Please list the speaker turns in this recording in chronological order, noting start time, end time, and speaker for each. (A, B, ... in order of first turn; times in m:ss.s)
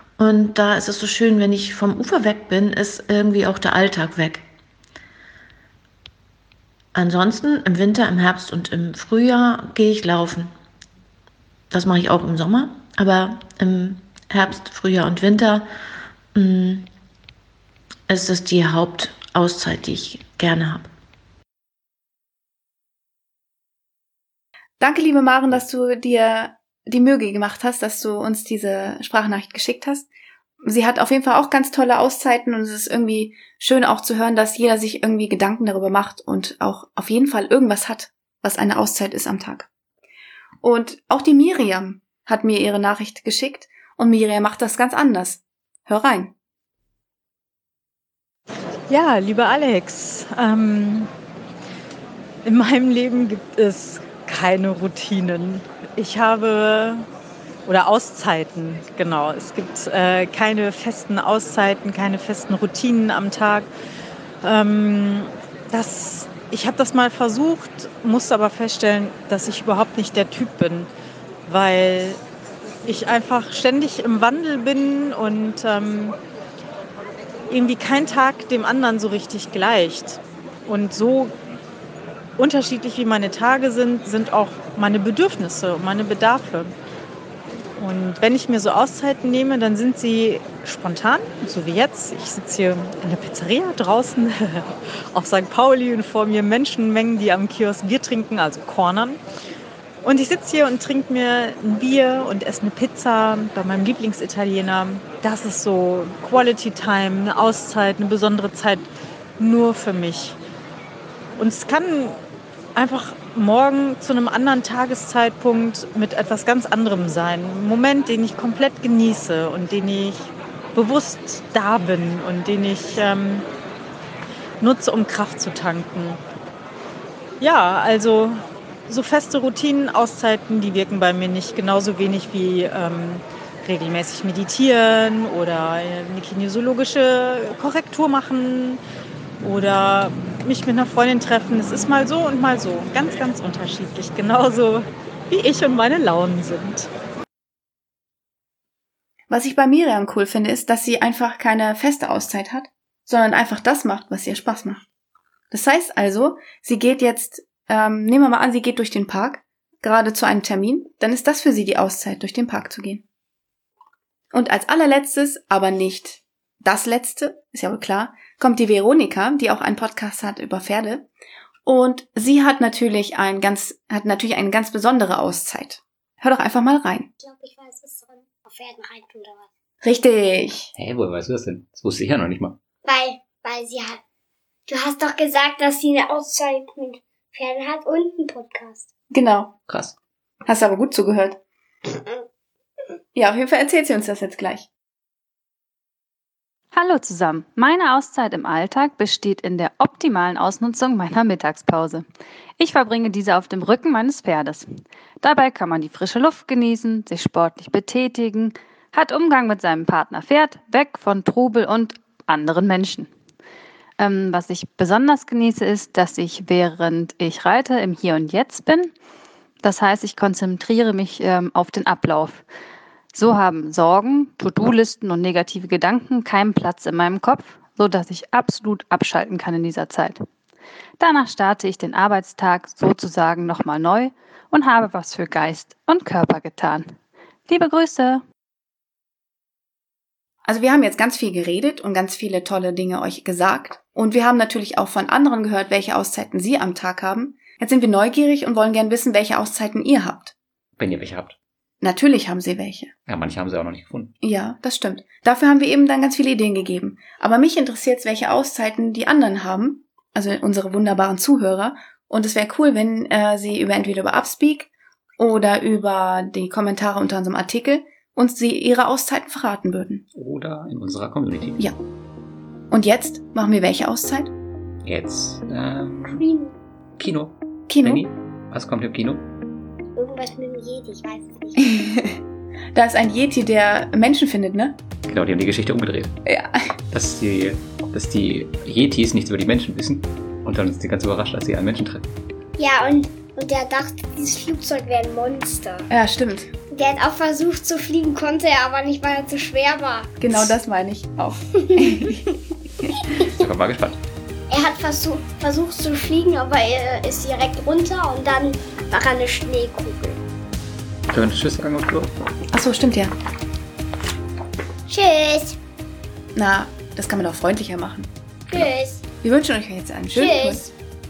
0:00.2-0:04.4 A
0:06.9-0:10.5 A
0:11.7-0:15.7 A
0:16.3-0:16.9 A
0:18.1-0:20.9 A
0:24.8-0:30.1 B
0:30.6-0:39.7 B
0:40.6-0:46.3 B
0:48.9-0:51.1 C
0:52.4-0:57.0 C
0:57.6-1:03.7 C
1:04.4-1:10.9 C
1:11.4-1:12.2 C
1:12.8-1:16.2 C
1:17.5-1:21.3 C
1:22.4-1:26.7 C
1:27.8-1:39.2 C
1:40.0-1:50.4 C
1:51.4-1:52.2 C
1:52.8-2:03.4 C
2:04.6-2:06.2 C
2:07.4-2:18.8 C
2:19.4-2:26.9 C
2:29.3-2:34.8 B
2:35.5-2:43.0 B
2:44.3-2:51.1 B
2:51.6-2:57.1 B
2:57.2-2:59.5 D
2:59.8-3:00.7 B
3:00.8-3:02.6 E
3:02.8-3:04.0 D
3:04.7-3:08.9 D
3:09.1-3:09.5 B
3:09.7-3:09.9 E
3:10.4-3:11.4 B
3:11.9-3:12.2 D
3:13.1-3:14.7 B
3:16.7-3:22.0 F
3:22.6-3:33.1 F
3:34.0-3:38.9 F
3:39.6-3:42.4 F
3:43.1-3:50.2 F
3:51.0-3:56.9 F
3:57.4-3:58.2 F
4:00.4-4:10.3 B
4:10.8-4:11.4 E
4:11.8-4:12.9 B
4:13.1-4:14.1 E
4:14.2-4:30.0 B
4:30.1-4:31.6 E
4:32.7-4:34.3 B
4:34.8-4:36.2 E
4:36.1-4:36.5 D
4:37.0-4:39.2 E
4:37.7-4:38.0 B
4:40.0-4:41.9 D
4:41.6-4:42.2 B
4:42.7-4:44.8 B
4:45.1-4:46.2 E
4:46.2-4:46.6 B
4:46.9-4:52.1 E
4:52.6-4:55.9 D
4:55.9-4:56.5 B
4:56.7-5:00.2 D
5:00.2-5:02.2 B
5:01.5-5:02.2 D
5:03.3-5:04.0 E
5:04.5-5:10.2 D
5:11.1-5:12.1 E
5:12.5-5:13.1 B
5:14.9-5:15.6 D
5:16.3-5:18.1 B
5:18.5-5:19.0 D
5:19.2-5:20.6 B
5:20.1-5:20.7 D